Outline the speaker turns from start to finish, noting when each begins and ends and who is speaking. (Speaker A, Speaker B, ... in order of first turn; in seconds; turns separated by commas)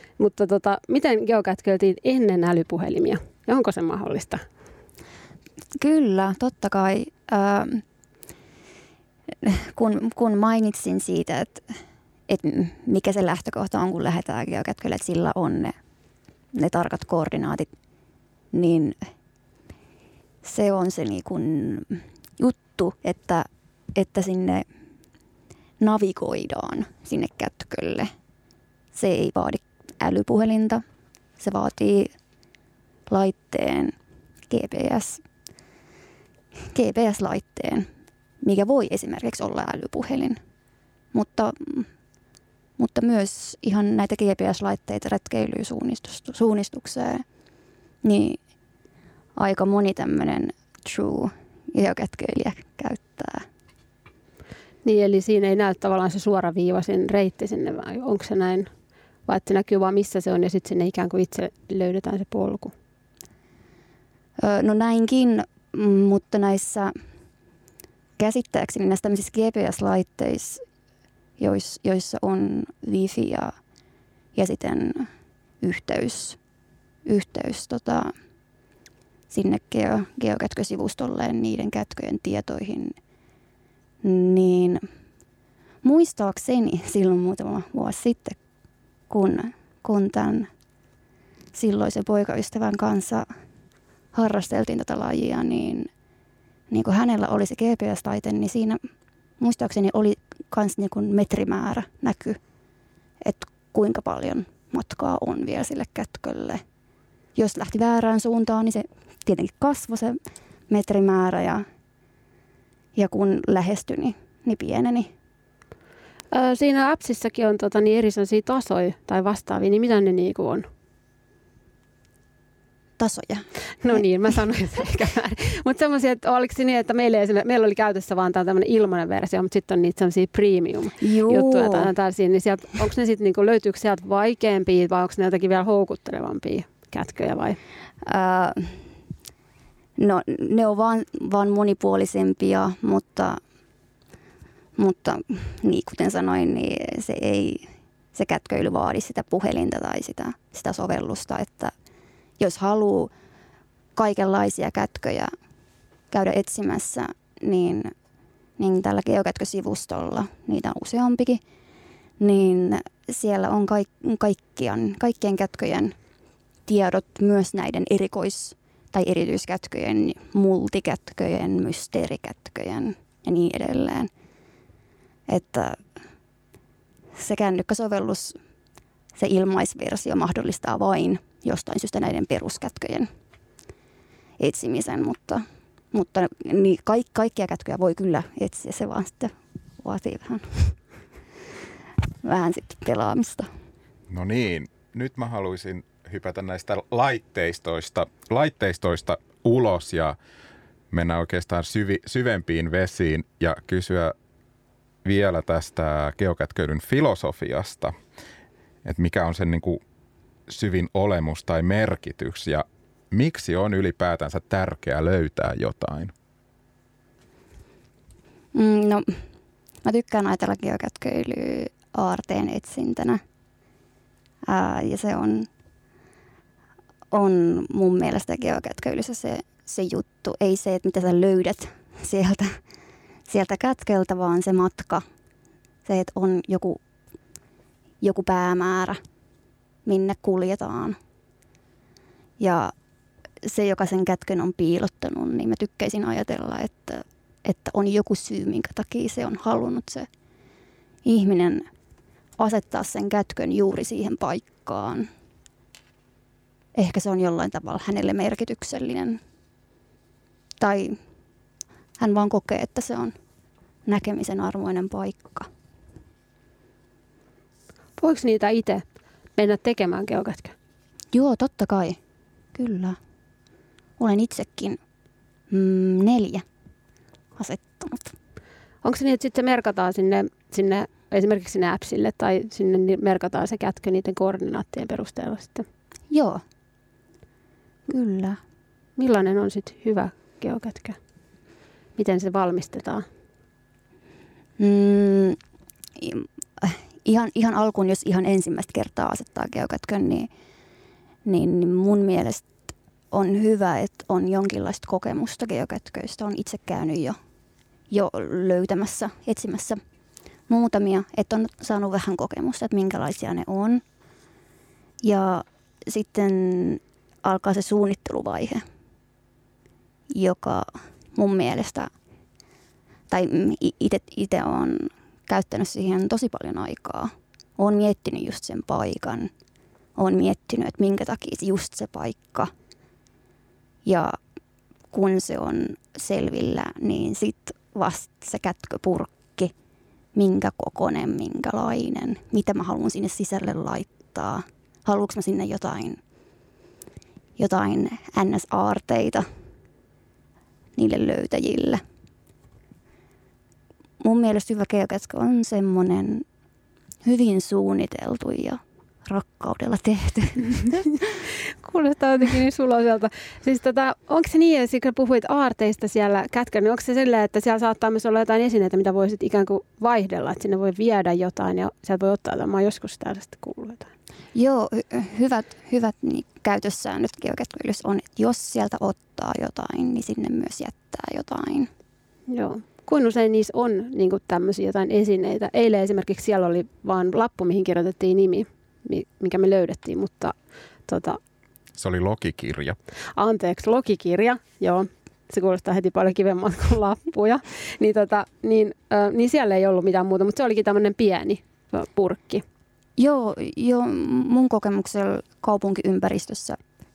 Speaker A: 0.2-4.4, Speaker B: 5.8-7.8, Speaker B: 9.4-11.7, Speaker B: 12.3-15.7, Speaker B: 16.5-17.7, Speaker B: 18.5-19.0, Speaker B: 20.4-24.6, Speaker B: 25.8-28.1, Speaker B: 28.9-30.8, Speaker B: 31.4-32.1, Speaker B: 33.1-33.9, Speaker B: 34.5-35.2, Speaker B: 36.7-37.9, Speaker B: 38.4-40.4, Speaker B: 41.1-41.9, Speaker B: 42.8-47.2, Speaker B: 48.0-48.4, Speaker B: 49.4-53.4, Speaker A: 54.8-58.7, Speaker A: 59.3-62.7, Speaker B: 64.4-66.9, Speaker B: 68.2-70.6, Speaker B: 71.4-73.5, Speaker B: 74.3-75.1, Speaker B: 75.6-76.4, Speaker B: 77.0-78.1, Speaker B: 79.3-83.0, Speaker B: 84.0-84.8, Speaker B: 85.8-88.4, Speaker B: 89.1-90.5, Speaker B: 91.5-93.3, Speaker B: 94.1-95.9, Speaker B: 96.7-98.8, Speaker B: 99.4-102.4, Speaker B: 103.2-106.6, Speaker B: 107.3-110.2, Speaker B: 110.7-111.7, Speaker B: 112.9-115.1, Speaker A: 116.3-120.7, Speaker B: 123.0-124.0, Speaker A: 123.8-137.6, Speaker B: 131.0-131.9, Speaker B: 138.0-138.8, Speaker B: 140.0-143.4, Speaker B: 144.8-151.7, Speaker B: 152.4-153.1, Speaker B: 153.9-155.3, Speaker B: 156.1-157.9, Speaker B: 158.6-161.4, Speaker B: 162.2-165.9, Speaker B: 166.7-174.1, Speaker B: 175.3-175.8, Speaker B: 177.2-178.4, Speaker B: 179.2-183.1, Speaker B: 184.4-190.8, Speaker B: 192.2-193.5, Speaker C: 194.1-200.2, Speaker C: 200.9-204.1, Speaker C: 205.0-207.9, Speaker C: 208.8-209.8, Speaker C: 210.5-216.1, Speaker B: 218.5-219.2, Speaker B: 219.8-223.2, Speaker B: 224.4-225.5, Speaker B: 227.1-232.6, Speaker B: 233.3-235.0, Speaker B: 235.8-236.8, Speaker B: 238.0-239.0, Speaker B: 239.8-241.0, Speaker B: 242.4-242.7, Speaker B: 243.4-250.1, Speaker B: 251.0-251.7, Speaker B: 252.4-255.1, Speaker B: 256.7-259.2, Speaker B: 260.6-261.0, Speaker B: 262.0-263.1, Speaker B: 263.9-265.5, Speaker A: 268.0-268.8, Speaker A: 269.4-270.5, Speaker B: 271.1-272.0, Speaker B: 272.5-273.0, Speaker B: 274.0-274.8, Speaker B: 275.5-276.4, Speaker B: 277.4-278.1, Speaker A: 278.8-285.6, Speaker B: 286.1-286.4, Speaker B: 287.9-288.4, Speaker A: 289.0-291.0, Speaker A: 292.0-293.0, Speaker B: 294.6-295.4, Speaker B: 296.0-300.3, Speaker B: 301.2-307.2, Speaker B: 307.9-309.8, Speaker B: 310.5-313.8, Speaker B: 315.0-318.6, Speaker B: 320.1-321.9, Speaker B: 323.1-329.3, Speaker B: 330.0-332.5, Speaker B: 333.8-334.2, Speaker B: 334.9-339.5, Speaker B: 340.1-346.0, Speaker B: 347.4-349.2, Speaker B: 350.8-351.8, Speaker B: 354.0-356.2, Speaker B: 357.0-360.9, Speaker A: 361.6-373.9, Speaker B: 374.3-381.7, Speaker A: 382.3-390.3, Speaker A: 390.9-391.2, Speaker C: 391.8-392.8, Speaker A: 393.1-402.4, Speaker B: 403.0-406.6